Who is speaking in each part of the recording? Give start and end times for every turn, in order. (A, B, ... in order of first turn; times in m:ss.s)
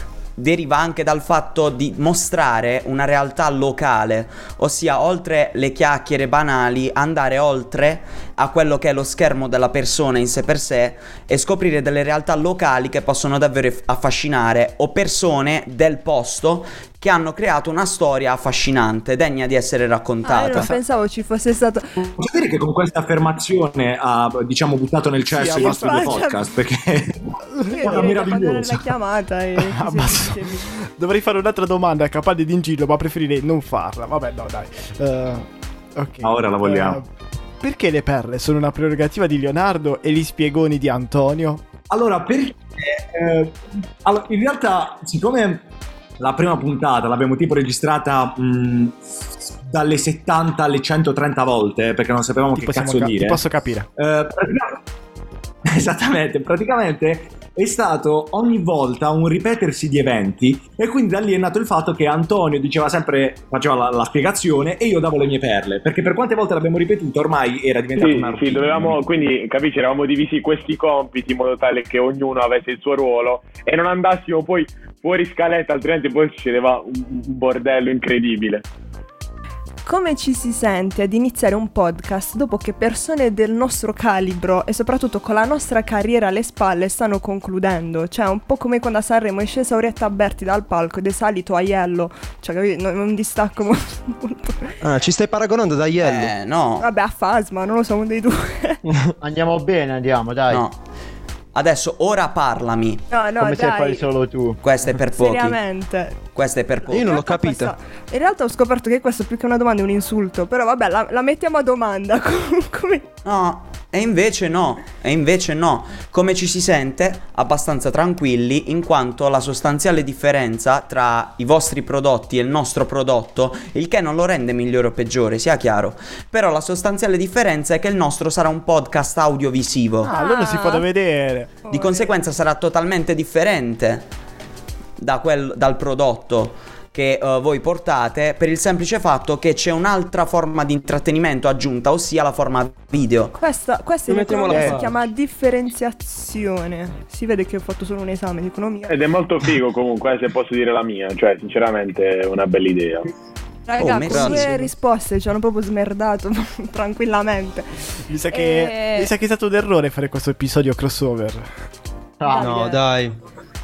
0:00.4-0:20.7 A
0:20.2-0:22.0 B
0:20.5-0:20.8 C
0:22.0-0:28.9 D
0:25.3-0:26.2 C
0:25.5-0:26.4 B
0:27.6-0:28.1 C
0:27.7-0:30.7 B
0:29.6-0:37.0 C
0:36.2-0:37.0 D
0:37.6-0:41.6 C
0:41.9-0:45.7 D
0:46.2-0:49.0 D
0:49.6-0:53.4 D
0:52.5-0:53.9 C
0:54.0-0:54.8 D
0:55.6-1:09.1 D
1:08.0-1:18.6 E
1:19.8-1:34.8 B
1:34.8-1:36.3 F
1:36.0-1:36.9 A
1:36.8-1:38.8 B
1:38.8-1:39.1 F
1:39.2-1:40.6 G
1:40.5-1:40.8 A
1:41.5-1:43.0 A
1:43.1-1:44.0 B
1:43.4-1:44.6 G
1:44.6-1:45.6 A
1:45.1-1:46.2 B
1:46.3-1:47.1 A
1:46.8-1:53.1 B
1:46.9-1:47.7 F
1:53.2-2:10.1 A
2:10.0-2:11.6 C
2:10.1-2:10.9 B
2:11.6-2:12.1 B
2:11.7-2:14.1 A
2:15.0-2:23.4 A
2:23.4-2:29.0 B
2:24.1-2:24.9 F
2:24.5-2:24.8 G
2:28.9-2:33.1 E
2:33.7-2:39.1 B
2:33.8-2:34.6 A
2:34.1-2:34.5 F
2:38.1-2:41.5 C
2:42.2-2:42.6 G
2:42.2-2:42.8 B
2:42.3-2:43.2 F